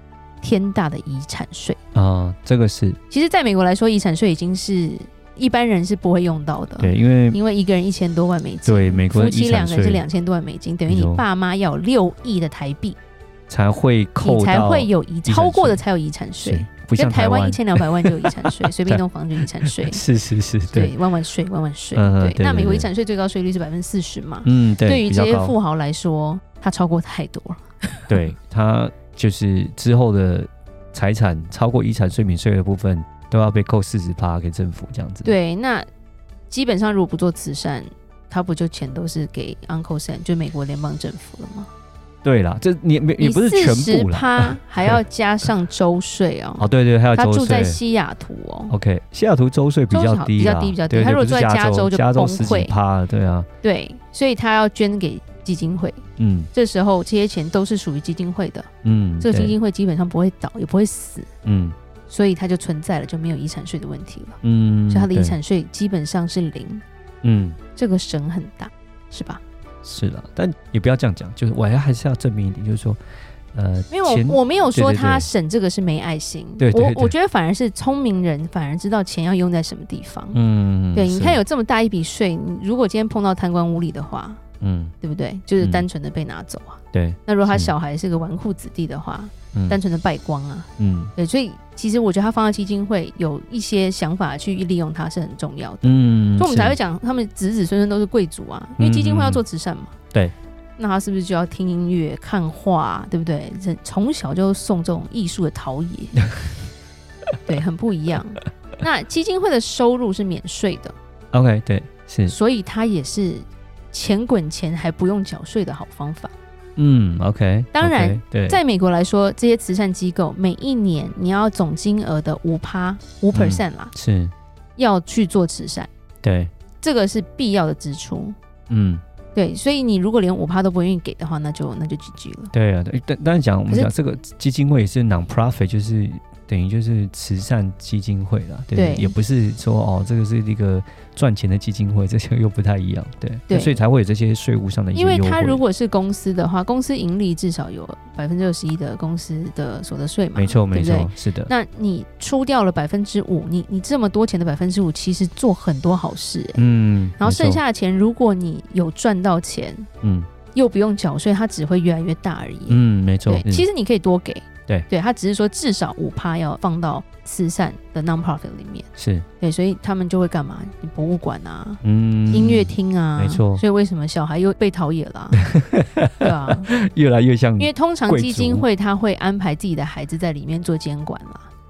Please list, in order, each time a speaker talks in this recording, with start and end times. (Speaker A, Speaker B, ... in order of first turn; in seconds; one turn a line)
Speaker A: 0.4-1.8
Speaker B: 1.9-3.0
Speaker A: 3.1-13.0
Speaker B: 6.8-7.4
Speaker B: 8.7-10.0
Speaker B: 10.9-11.2
Speaker B: 13.5-15.8
Speaker A: 14.2-20.0
Speaker B: 16.4-19.0
Speaker B: 19.8-20.9
Speaker A: 20.7-28.2
Speaker B: 21.9-22.9
Speaker B: 24.4-25.6
Speaker B: 28.1-35.3
Speaker A: 35.2-35.9
Speaker A: 36.5-41.7
Speaker B: 42.2-45.0
Speaker A: 43.2-48.7
Speaker B: 46.6-47.8
Speaker B: 48.7-53.5
Speaker A: 49.9-52.7
Speaker A: 53.6-58.7
Speaker B: 56.2-56.5
Speaker B: 58.8-59.6
Speaker A: 59.2-61.3
Speaker B: 61.5-61.8
Speaker A: 62.1-64.4
Speaker B: 64.4-65.4
Speaker A: 64.9-66.8
Speaker B: 67.2-67.6
Speaker A: 67.8-69.4
Speaker B: 69.8-73.0
Speaker B: 73.5-75.3
Speaker A: 73.9-80.4
Speaker B: 76.6-77.1
Speaker B: 80.3-81.4
Speaker A: 80.9-84.4
Speaker B: 84.6-84.9
Speaker A: 85.0-100.0
Speaker B: 85.6-85.8
Speaker B: 86.9-87.7
Speaker B: 90.8-91.1
Speaker B: 95.8-96.8
Speaker B: 98.8-99.4
Speaker A: 100.8-106.2
Speaker A: 107.5-111.0
Speaker B: 111.3-112.3
Speaker A: 112.3-116.3
Speaker B: 116.8-118.6
Speaker A: 117.7-123.9
Speaker B: 123.3-124.3
Speaker A: 124.8-125.9
Speaker B: 126.2-126.5
Speaker A: 126.8-128.3
Speaker B: 128.7-129.0
Speaker A: 129.3-132.5
Speaker B: 132.5-145.6
Speaker A: 133.7-133.9
Speaker A: 138.8-139.1
Speaker A: 143.5-143.8
Speaker A: 144.9-156.7
Speaker B: 150.4-151.5
Speaker B: 156.6-157.6
Speaker A: 157.2-159.9
Speaker B: 160.0-160.3
Speaker A: 160.5-168.9
Speaker B: 162.7-163.7
Speaker B: 169.0-169.3
Speaker A: 169.4-175.5
Speaker B: 171.8-173.6
Speaker B: 175.4-178.7
Speaker A: 176.2-176.7
Speaker A: 177.6-181.5